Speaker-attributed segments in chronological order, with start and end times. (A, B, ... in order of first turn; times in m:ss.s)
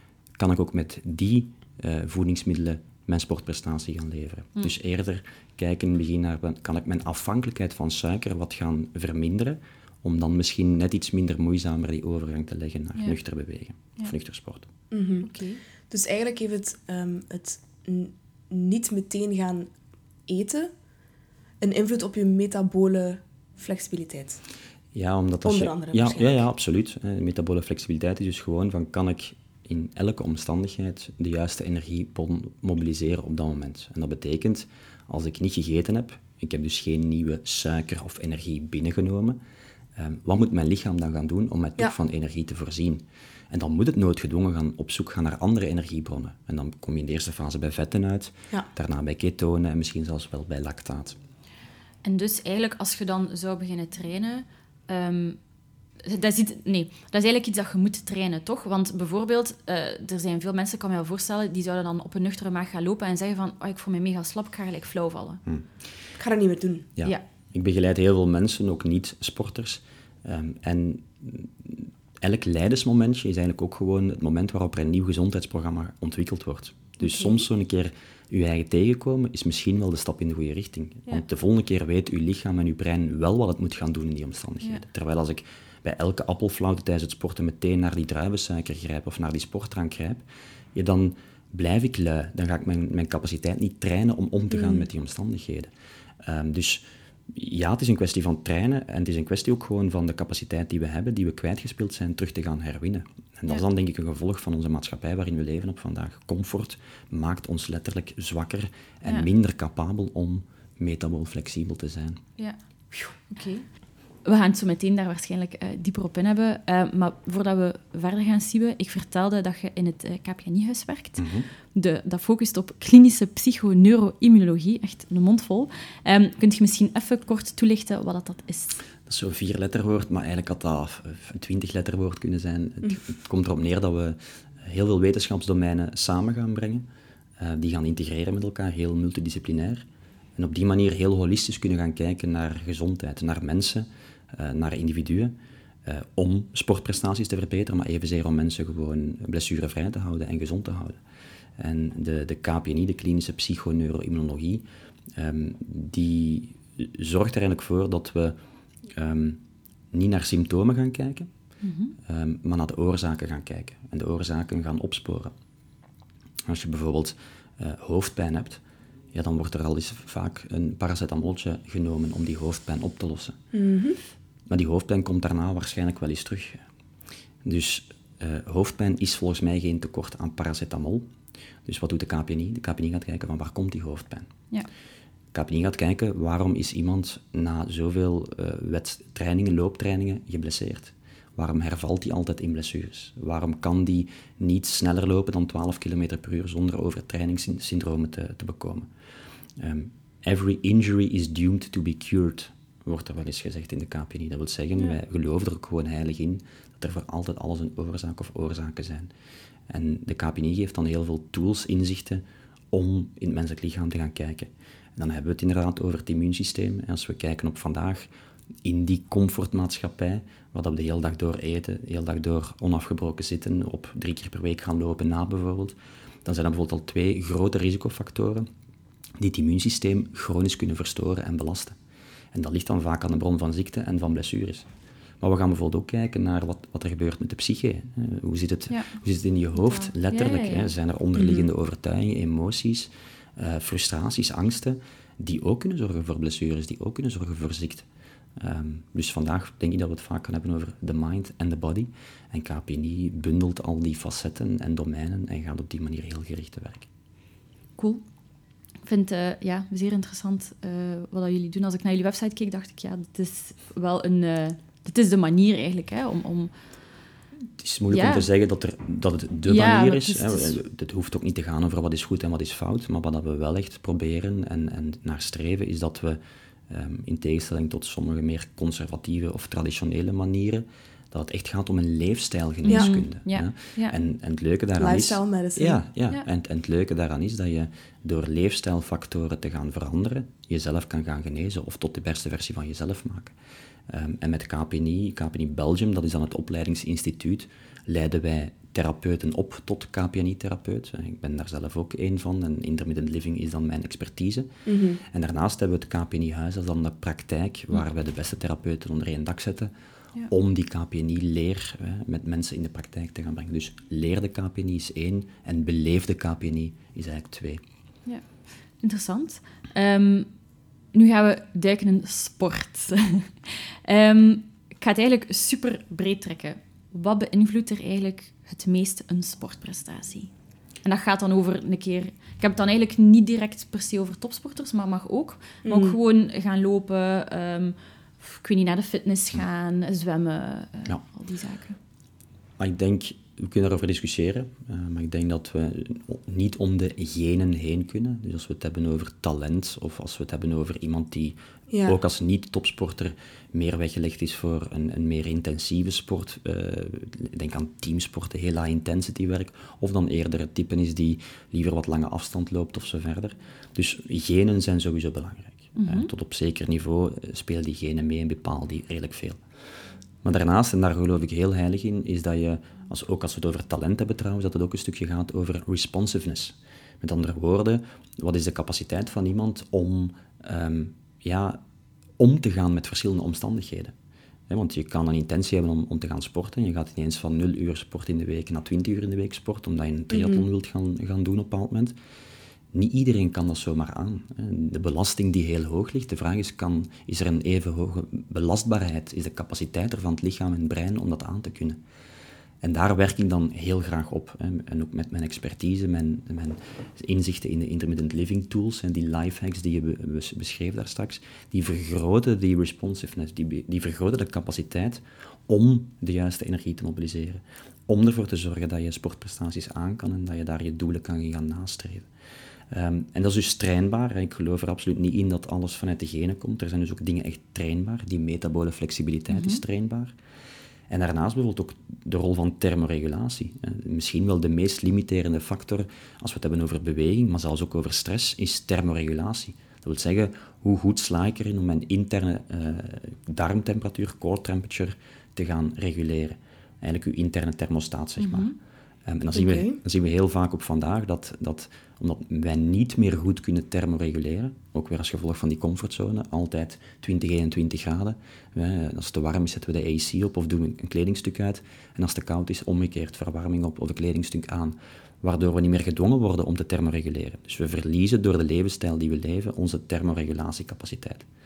0:00.4-0:14.7 A
0:14.9-0:15.3 B
0:15.2-0:15.6 C
0:15.9-0:19.7 B
0:20.3-0:20.7 B
0:21.6-0:24.4 B
0:24.9-0:39.4 A
0:25.4-0:26.4 B
0:40.0-0:51.2 A
0:52.0-0:55.4 C
0:56.0-1:05.4 C
1:06.2-1:06.9 B
1:07.0-1:30.2 A
1:17.0-1:17.4 C
1:30.7-1:35.7 A
1:34.5-1:34.8 B
1:36.2-1:52.2 A
1:52.4-1:53.7 C
1:54.2-2:08.8 C
2:01.2-2:01.5 A
2:09.0-2:16.8 A
2:17.4-2:31.0 A
2:31.6-2:38.4 A
2:38.9-2:39.4 A
2:39.9-2:41.3 A
2:41.6-2:42.0 C
2:42.0-2:45.3 A
2:46.5-2:48.6 A
2:49.1-2:53.4 A
2:53.5-2:54.0 B
2:54.5-2:56.6 A
2:57.4-3:01.1 A
3:01.6-3:04.3 A
3:05.3-3:18.9 A
3:19.6-3:29.1 A
3:29.7-3:38.1 A
3:38.6-3:48.5 A
3:49.2-3:51.8 A
3:52.3-3:54.7 A
3:55.2-4:07.8 A
3:59.6-4:00.7 C
4:01.1-4:01.5 B
4:08.4-4:16.8 A
4:17.8-4:18.0 C
4:18.8-4:26.5 C
4:27.6-4:53.3 A
4:27.9-4:28.3 C
4:29.5-4:30.6 C
4:42.6-4:44.0 C
4:44.8-4:45.8 B
4:53.9-5:04.5 A
5:04.6-5:05.0 B
5:05.0-5:09.7 A
5:10.3-5:17.6 A
5:18.8-5:20.3 C
5:20.9-5:30.3 C
5:30.8-5:41.8 C
5:35.6-5:36.0 B
5:42.6-6:09.4 A
5:51.7-5:52.0 B
6:05.8-6:06.1 C
6:10.2-6:21.6 A
6:22.2-6:23.9 A
6:24.5-6:32.0 A
6:30.1-6:30.4 B
6:32.7-6:41.8 A
6:42.6-7:02.1 A
7:02.7-7:10.1 A
7:09.3-7:09.6 C
7:10.9-7:28.5 A
7:28.2-7:28.5 C
7:29.0-7:51.3 A
7:29.3-7:29.8 B